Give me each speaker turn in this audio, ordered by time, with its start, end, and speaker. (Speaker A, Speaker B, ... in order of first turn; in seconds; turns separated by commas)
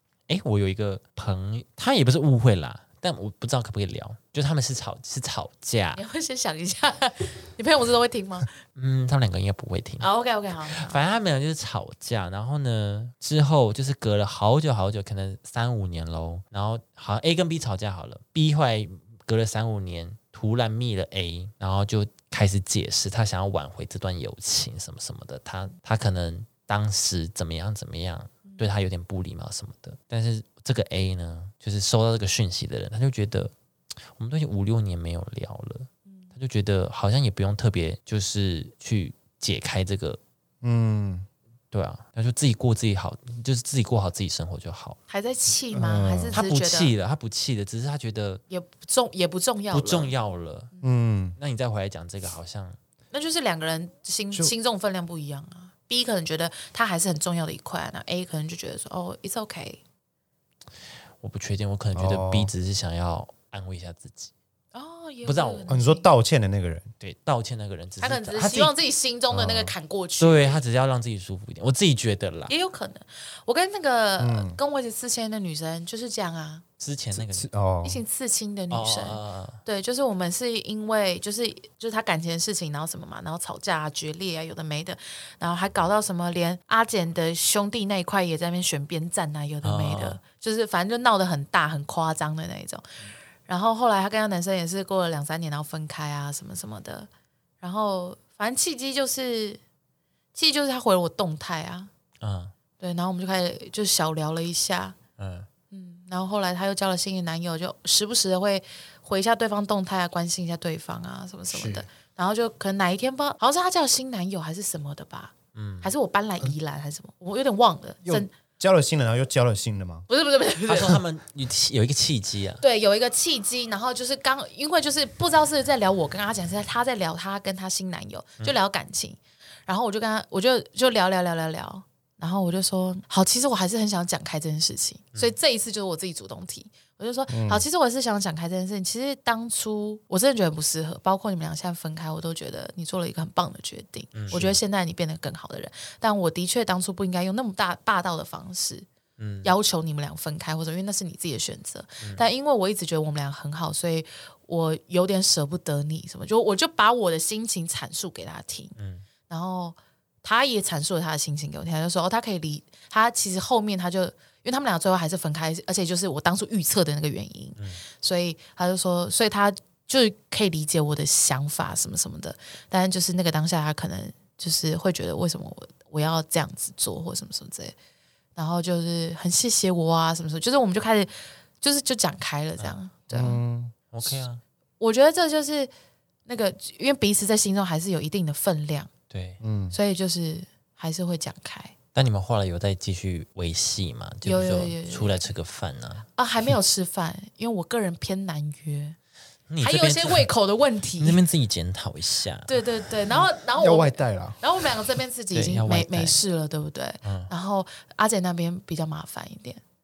Speaker A: 0.3-6.0, Speaker B: 5.9-8.5, Speaker A: 8.7-10.1, Speaker B: 10.0-11.0, Speaker A: 10.7-33.5, Speaker A: 34.1-40.2, Speaker C: 40.6-41.3, Speaker A: 41.7-45.0, Speaker B: 45.1-46.9, Speaker C: 45.7-46.4, Speaker A: 46.3-48.4, Speaker B: 48.5-50.1, Speaker A: 49.7-50.7, Speaker C: 50.8-51.4, Speaker A: 51.4-52.8, Speaker B: 53.1-59.8, Speaker A: 61.2-64.3, Speaker C: 61.9-62.5, Speaker B: 64.7-66.1, Speaker A: 65.2-65.7, Speaker C: 65.7-66.9, Speaker A: 67.0-68.7, Speaker B: 68.0-70.6, Speaker C: 69.3-69.7, Speaker A: 70.2-72.5, Speaker B: 72.5-76.6, Speaker C: 74.2-74.6, Speaker A: 76.8-77.5, Speaker C: 77.1-78.0, Speaker B: 77.8-92.8, Speaker A: 78.7-79.6, Speaker A: 89.6-90.2, Speaker B: 93.5-97.1, Speaker B: 97.6-99.6, Speaker B: 100.3-101.9, Speaker A: 102.2-102.5, Speaker B: 102.8-105.0, Speaker A: 105.2-105.5, Speaker B: 105.7-118.3, Speaker C: 111.5-111.8, Speaker A: 115.5-115.9, Speaker C: 118.0-120.1, Speaker B: 120.1-121.0, Speaker A: 120.7-122.6, Speaker B: 122.6-148.8, Speaker C: 137.3-137.6, Speaker A: 144.1-144.4, Speaker C: 144.3-144.6, Speaker A: 149.2-149.5, Speaker B: 149.4-158.7, Speaker A: 152.0-152.2, Speaker A: 158.8-159.0, Speaker B: 159.3-177.7, Speaker A: 167.6-167.8, Speaker B: 178.3-183.4, Speaker C: 183.1-183.7, Speaker A: 183.9-184.4, Speaker B: 184.8-185.7, Speaker B: 186.3-188.9, Speaker A: 189.1-189.4, Speaker C: 189.4-189.8, Speaker B: 189.7-191.7, Speaker A: 191.9-196.1, Speaker B: 194.2-195.2, Speaker B: 196.2-199.0, Speaker A: 199.5-200.3, Speaker B: 199.6-201.2, Speaker A: 201.0-202.6, Speaker B: 202.5-209.6, Speaker C: 203.6-204.4, Speaker A: 205.3-206.2, Speaker A: 207.0-207.3